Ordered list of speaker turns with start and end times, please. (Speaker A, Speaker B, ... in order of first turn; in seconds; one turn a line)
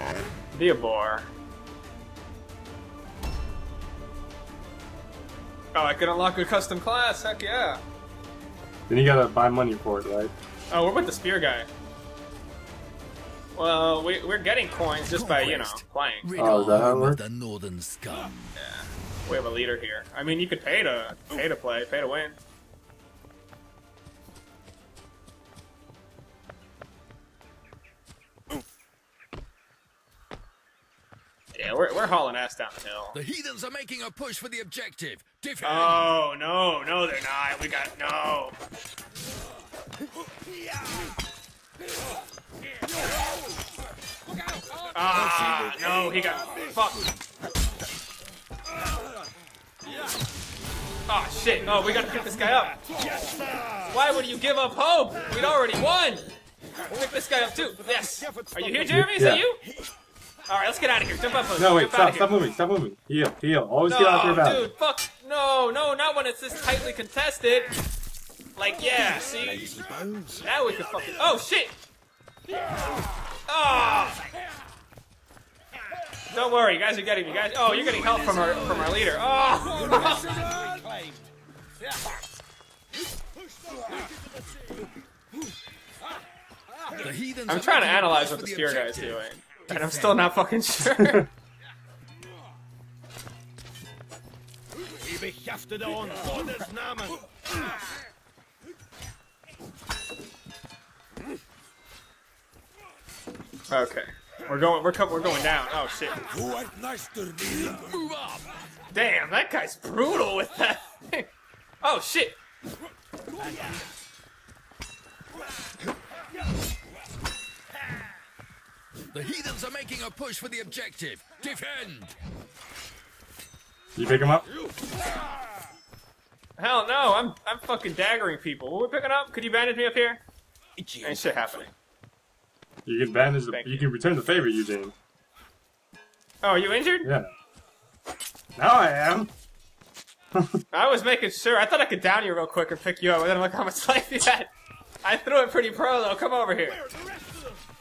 Speaker A: 0.5-1.3
Speaker A: 5.7-7.8
Speaker B: 8.9-10.3
Speaker A: 10.7-11.7
Speaker A: 13.5-16.3
Speaker C: 15.1-18.5
Speaker B: 16.4-17.2
Speaker A: 18.6-22.4
Speaker A: 31.5-33.2
Speaker C: 33.1-36.1
Speaker A: 35.6-38.6
Speaker A: 44.9-47.0
Speaker A: 51.1-52.8
Speaker D: 53.1-53.5
Speaker A: 53.9-56.3
Speaker A: 56.9-59.6
Speaker B: 58.9-59.5
Speaker A: 60.5-62.4
Speaker B: 61.6-64.7
Speaker A: 63.9-67.7
Speaker A: 68.6-69.8
Speaker D: 69.7-70.2
Speaker A: 70.4-71.8
Speaker A: 73.5-74.2
Speaker A: 76.3-80.3
Speaker C: 77.7-78.9
Speaker D: 80.0-81.0
Speaker C: 87.0-90.3
Speaker A: 87.5-91.3
Speaker D: 95.1-97.2
Speaker A: 103.7-106.2
Speaker D: 106.5-107.3
Speaker C: 107.5-108.5
Speaker A: 108.9-111.3
Speaker A: 111.8-112.4
Speaker C: 119.1-122.2
Speaker B: 123.9-124.5
Speaker A: 126.6-130.2
Speaker A: 131.0-131.7
Speaker B: 132.9-134.9
Speaker A: 133.5-133.9
Speaker A: 136.4-137.1
Speaker B: 137.0-137.3
Speaker B: 138.6-139.3
Speaker A: 140.7-144.5
Speaker A: 145.0-146.9
Speaker D: 147.0-147.4